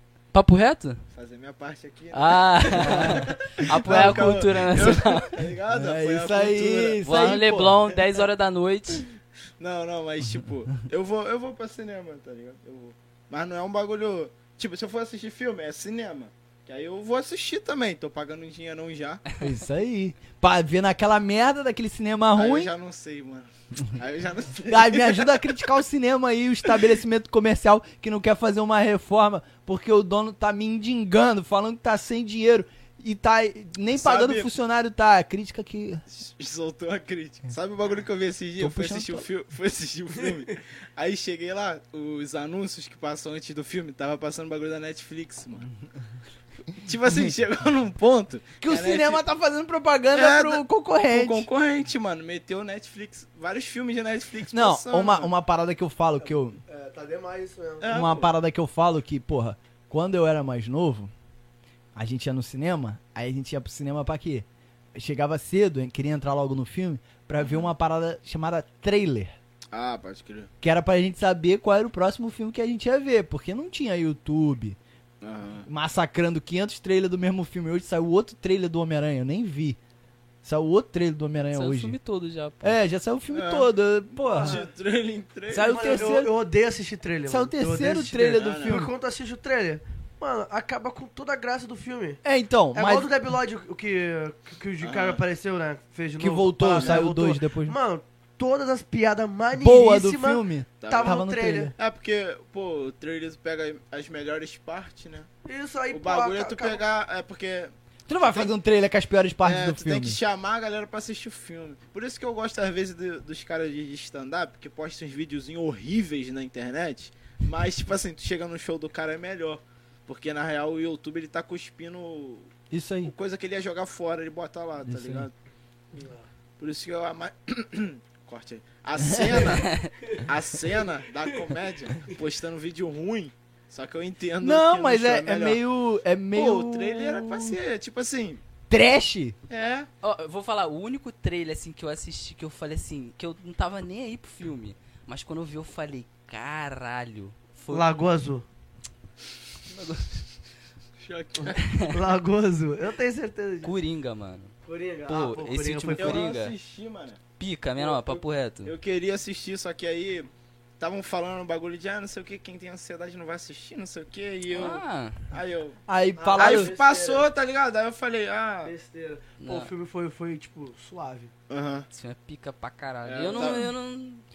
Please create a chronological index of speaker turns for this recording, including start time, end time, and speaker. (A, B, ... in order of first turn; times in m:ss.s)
0:00.3-0:01.0 A
0:01.1-0:07.4 B
0:02.1-0:05.4 A
0:02.8-0:03.3 C
0:03.8-0:04.4 C
0:05.7-0:07.8 C
0:07.0-0:09.1 A
0:09.6-0:19.2 B
0:19.4-0:22.7 C
0:22.4-0:25.6 B
0:24.7-0:36.0 C
0:33.9-0:34.5 B
0:36.1-0:45.7 B
0:38.6-0:39.2 C
0:46.8-0:49.2 B
0:48.6-0:51.5 C
0:50.1-0:55.3 B
0:54.5-0:56.6 C
0:56.2-0:58.0 D
0:57.8-0:58.3 B
0:57.9-1:01.1 C
1:02.0-1:09.3 C
1:07.4-1:07.7 B
1:09.7-1:10.5 B
1:10.6-1:14.8 C
1:15.2-1:15.7 B
1:15.7-1:19.8 C
1:20.4-1:22.0 C
1:21.5-1:22.8 A
1:22.6-1:24.6 C
1:23.3-1:23.7 B
1:24.2-1:24.6 D
1:24.3-1:26.2 B
1:25.5-1:26.3 C
1:25.7-1:32.2 D
1:27.3-1:28.9 C
1:28.2-1:28.8 B
1:32.2-1:33.1 C
1:32.7-1:41.7 D
1:34.8-1:35.2 B
1:36.2-1:37.8 C
1:36.7-1:37.1 B
1:39.6-1:41.8 C
1:40.8-1:41.2 B
1:41.8-1:45.3 B
1:45.5-1:46.8 D
1:45.9-1:47.7 B
1:48.1-1:50.2 C
1:49.4-2:02.5 B
2:02.7-2:03.1 C
2:03.0-2:05.3 B
2:04.8-2:05.3 C
2:05.9-2:06.3 D
2:06.6-2:15.6 B
2:09.0-2:09.6 C
2:09.4-2:09.9 A
2:14.4-2:17.6 C
2:16.3-2:18.4 B
2:18.7-2:19.4 C
2:19.5-2:19.9 B
2:20.0-2:27.9 A
2:27.7-2:28.4 D
2:29.7-2:30.2 A
2:31.0-2:31.6 B
2:31.6-2:31.9 A
2:31.9-2:33.7 D
2:33.6-2:34.5 A
2:34.6-2:36.3 D
2:35.1-2:36.5 A
2:36.0-2:37.2 B
2:37.4-2:38.7 A
2:37.8-2:45.8 B
2:44.5-2:45.2 A
2:45.9-2:46.7 C
2:46.2-2:47.3 D
2:46.4-2:48.7 B
2:48.6-2:51.3 D
2:49.4-2:49.7 A
2:51.5-2:51.9 B
2:51.9-2:54.2 A
2:53.0-2:53.7 B